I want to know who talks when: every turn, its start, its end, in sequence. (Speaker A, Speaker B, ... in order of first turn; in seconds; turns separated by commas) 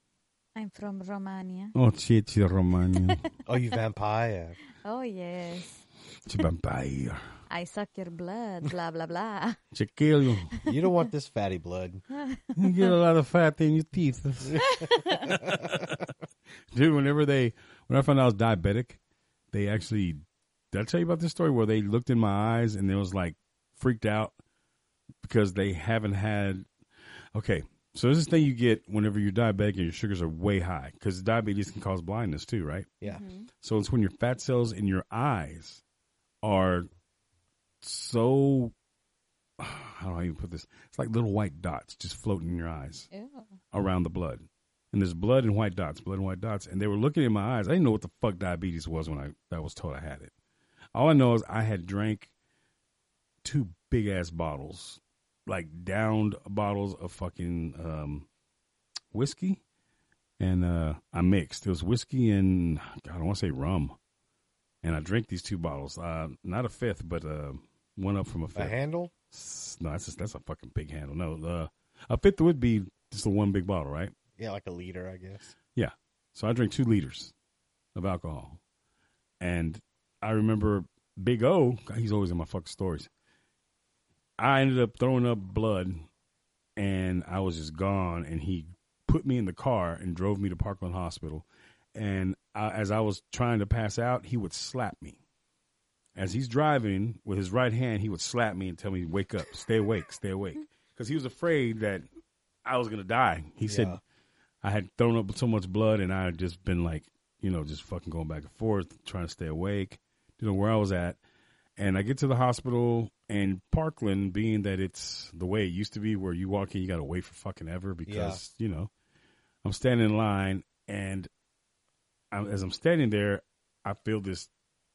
Speaker A: 0.6-1.7, Speaker B: 1.7-3.3, Speaker C: 3.5-4.5, Speaker A: 4.8-5.8, Speaker B: 6.3-7.2, Speaker A: 7.5-9.6, Speaker B: 9.7-10.5, Speaker A: 10.5-10.9, Speaker C: 10.6-12.0, Speaker A: 12.2-12.9, Speaker B: 12.5-16.0, Speaker C: 14.4-14.8, Speaker A: 14.7-15.3, Speaker B: 16.7-19.0, Speaker B: 19.5-24.4, Speaker B: 25.2-26.7, Speaker B: 27.3-32.9, Speaker A: 33.0-33.5, Speaker B: 33.6-35.8, Speaker B: 36.4-36.9, Speaker B: 37.8-38.7, Speaker B: 39.6-43.1, Speaker A: 43.1-43.5, Speaker B: 43.7-50.3, Speaker B: 50.9-52.3, Speaker B: 53.4-58.3, Speaker B: 59.1-59.6, Speaker B: 60.4-64.0, Speaker B: 64.8-68.8, Speaker C: 68.5-69.1, Speaker B: 69.3-74.1, Speaker C: 74.4-75.5, Speaker B: 75.7-77.3, Speaker B: 77.9-78.6, Speaker B: 79.4-83.1, Speaker B: 84.4-86.1, Speaker B: 86.8-95.2, Speaker B: 96.2-102.0, Speaker B: 102.6-104.0, Speaker C: 103.6-104.0, Speaker B: 104.6-111.2, Speaker B: 111.8-118.9, Speaker C: 118.0-118.4, Speaker B: 119.6-121.3, Speaker B: 122.3-124.5